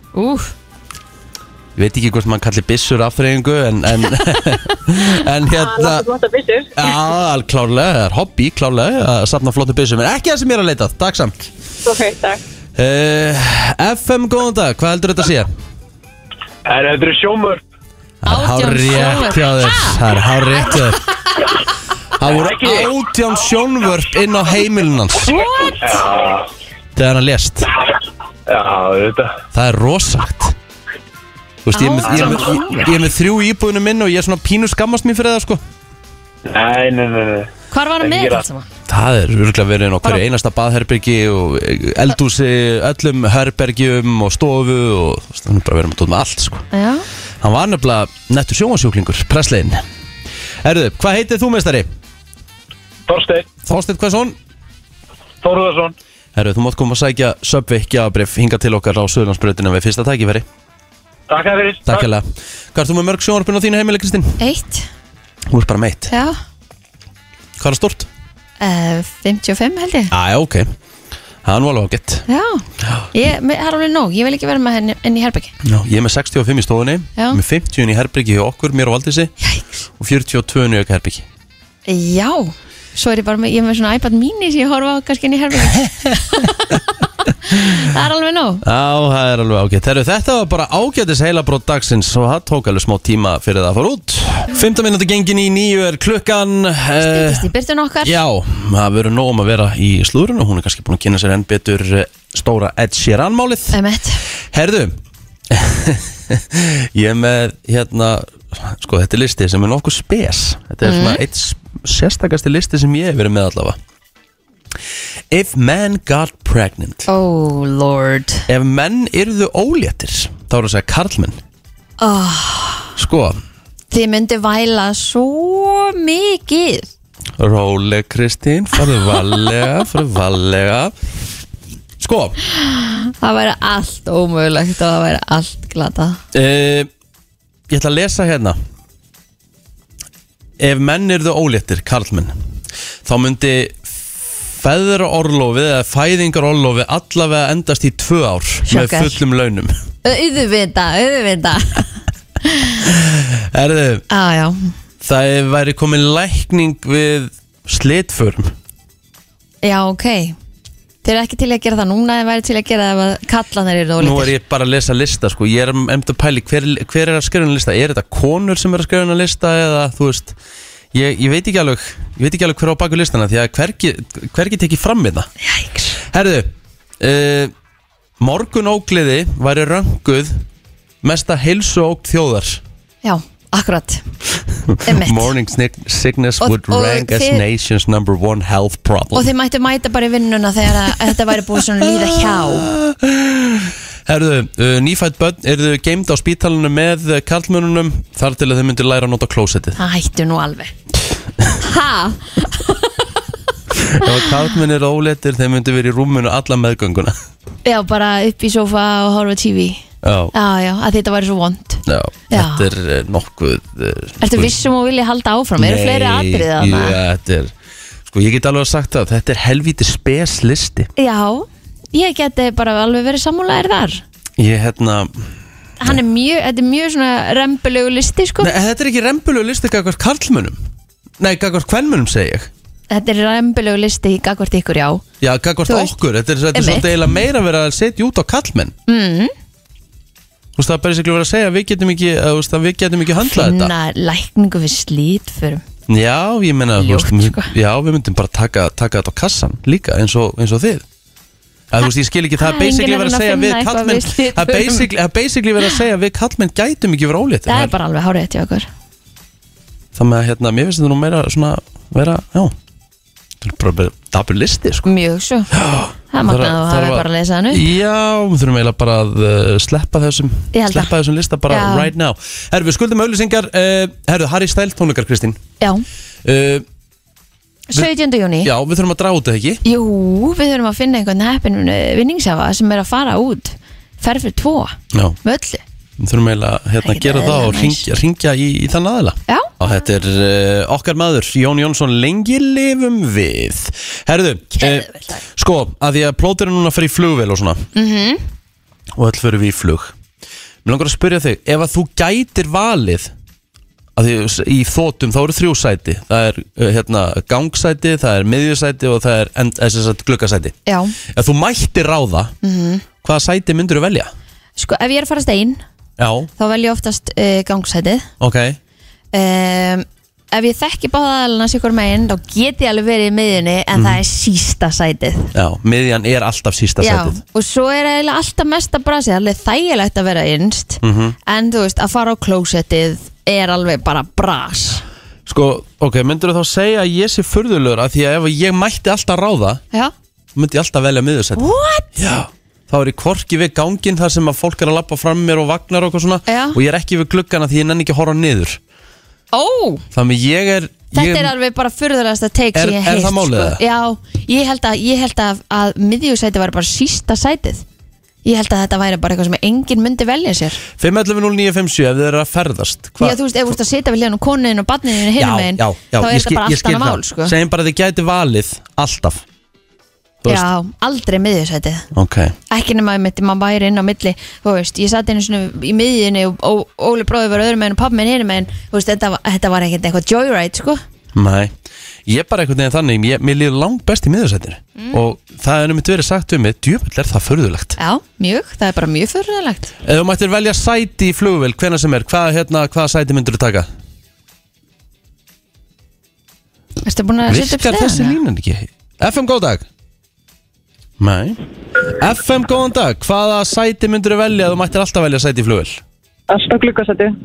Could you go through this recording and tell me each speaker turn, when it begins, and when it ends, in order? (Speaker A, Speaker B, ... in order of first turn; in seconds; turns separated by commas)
Speaker A: 0.1-0.5, Speaker B: 1.8-6.0, Speaker C: 5.5-6.7, Speaker B: 6.7-11.5, Speaker C: 11.8-12.4, Speaker B: 12.8-15.5, Speaker D: 16.8-17.5, Speaker B: 18.2-21.0, Speaker A: 18.3-20.0, Speaker B: 22.2-25.4, Speaker A: 25.2-26.0, Speaker D: 25.9-26.4, Speaker B: 26.9-27.7, Speaker D: 28.5-29.3, Speaker B: 29.5-30.5, Speaker B: 31.6-35.6, Speaker A: 31.7-33.0, Speaker D: 36.5-37.5, Speaker A: 37.7-38.6, Speaker D: 38.0-38.4, Speaker B: 38.9-46.6, Speaker A: 46.7-47.0, Speaker B: 47.4-49.8, Speaker B: 50.6-51.9, Speaker B: 53.6-54.4, Speaker B: 56.3-60.5, Speaker B: 61.8-64.4, Speaker A: 64.4-64.9, Speaker B: 65.5-66.1, Speaker A: 66.1-66.3, Speaker B: 67.6-68.1, Speaker A: 68.6-70.1, Speaker B: 70.1-70.7, Speaker B: 71.4-72.2, Speaker A: 72.3-75.5, Speaker B: 72.8-73.1, Speaker B: 75.6-79.3, Speaker A: 79.4-79.8, Speaker B: 80.0-81.2, Speaker A: 81.9-86.9, Speaker B: 85.7-86.1, Speaker A: 87.5-88.6, Speaker B: 88.6-97.5, Speaker A: 97.0-98.2, Speaker B: 98.0-103.8, Speaker A: 103.7-104.2, Speaker B: 104.5-105.0, Speaker B: 105.5-113.8, Speaker A: 110.8-111.2, Speaker B: 115.3-117.1, Speaker A: 117.1-118.5, Speaker B: 118.5-121.4, Speaker A: 122.0-122.9, Speaker B: 123.0-123.4, Speaker A: 123.9-126.9, Speaker B: 127.4-130.9, Speaker B: 132.0-132.4, Speaker A: 132.6-136.2, Speaker B: 136.3-136.9, Speaker B: 137.7-138.6, Speaker B: 140.6-142.3, Speaker B: 143.0-149.7, Speaker A: 148.7-149.2, Speaker A: 150.0-151.9, Speaker A: 152.4-152.8, Speaker B: 152.8-154.0, Speaker A: 154.1-154.7, Speaker B: 155.0-158.5, Speaker A: 159.6-160.3, Speaker A: 161.0-164.3, Speaker B: 164.0-170.3, Speaker B: 170.9-175.3, Speaker A: 175.4-176.0, Speaker B: 176.1-177.5, Speaker B: 178.2-180.4, Speaker B: 181.0-182.6, Speaker A: 183.0-184.0, Speaker B: 184.7-189.3, Speaker A: 184.8-185.3, Speaker A: 186.4-187.4, Speaker A: 189.1-192.7, Speaker B: 191.8-199.8, Speaker A: 199.8-200.7, Speaker A: 201.6-202.9, Speaker B: 203.7-207.1, Speaker A: 207.6-209.8, Speaker B: 210.0-210.3, Speaker A: 210.3-212.7, Speaker B: 211.9-214.6, Speaker A: 214.2-217.0, Speaker B: 215.6-217.5, Speaker B: 218.1-220.9, Speaker A: 221.0-224.0, Speaker B: 224.4-225.3, Speaker A: 225.8-228.6, Speaker B: 228.4-230.6, Speaker B: 231.2-232.5, Speaker A: 232.9-235.0, Speaker B: 235.2-238.7, Speaker A: 235.7-235.9, Speaker A: 236.5-237.1, Speaker A: 238.9-239.3, Speaker B: 240.6-243.7, Speaker A: 243.2-245.6, Speaker B: 245.9-250.8, Speaker A: 246.8-247.5, Speaker B: 251.7-257.7, Speaker A: 252.4-254.9, Speaker A: 257.5-258.7, Speaker B: 259.9-262.5, Speaker B: 263.4-264.9, Speaker A: 264.8-265.5, Speaker B: 265.5-275.4, Speaker A: 266.1-267.7, Speaker A: 270.5-270.9, Speaker A: 271.5-271.9, Speaker B: 276.2-276.6, Speaker A: 277.7-278.5, Speaker B: 278.4-279.6, Speaker A: 279.6-285.6, Speaker B: 286.0-297.6, Speaker A: 286.8-287.9, Speaker A: 289.3-289.5, Speaker A: 294.6-295.2, Speaker A: 297.7-298.2, Speaker B: 298.9-299.9, Speaker B: 300.6-303.1, Speaker B: 303.9-310.5, Speaker A: 310.6-311.0, Speaker B: 311.1-312.3, Speaker A: 312.4-312.8, Speaker B: 313.0-314.1, Speaker A: 314.6-315.6, Speaker B: 316.0-316.3, Speaker A: 316.4-318.1, Speaker B: 318.2-318.6, Speaker A: 319.1-325.3, Speaker B: 323.7-324.0, Speaker B: 325.3-327.2, Speaker A: 326.8-334.8, Speaker B: 330.8-331.1, Speaker B: 335.2-339.6, Speaker B: 340.3-348.6, Speaker A: 341.4-341.9, Speaker A: 346.3-346.6, Speaker A: 349.3-349.8, Speaker B: 349.9-351.3, Speaker A: 350.9-357.6, Speaker B: 352.5-353.6, Speaker A: 358.2-360.6, Speaker B: 360.8-363.2, Speaker A: 363.0-367.3, Speaker B: 365.1-369.2, Speaker A: 370.3-371.9, Speaker B: 371.9-372.3, Speaker A: 372.5-380.8, Speaker B: 381.1-381.5, Speaker B: 382.1-387.8, Speaker A: 387.8-389.7, Speaker B: 389.8-393.7, Speaker A: 396.8-398.2, Speaker B: 397.3-399.6, Speaker B: 401.0-405.8, Speaker C: 406.3-407.1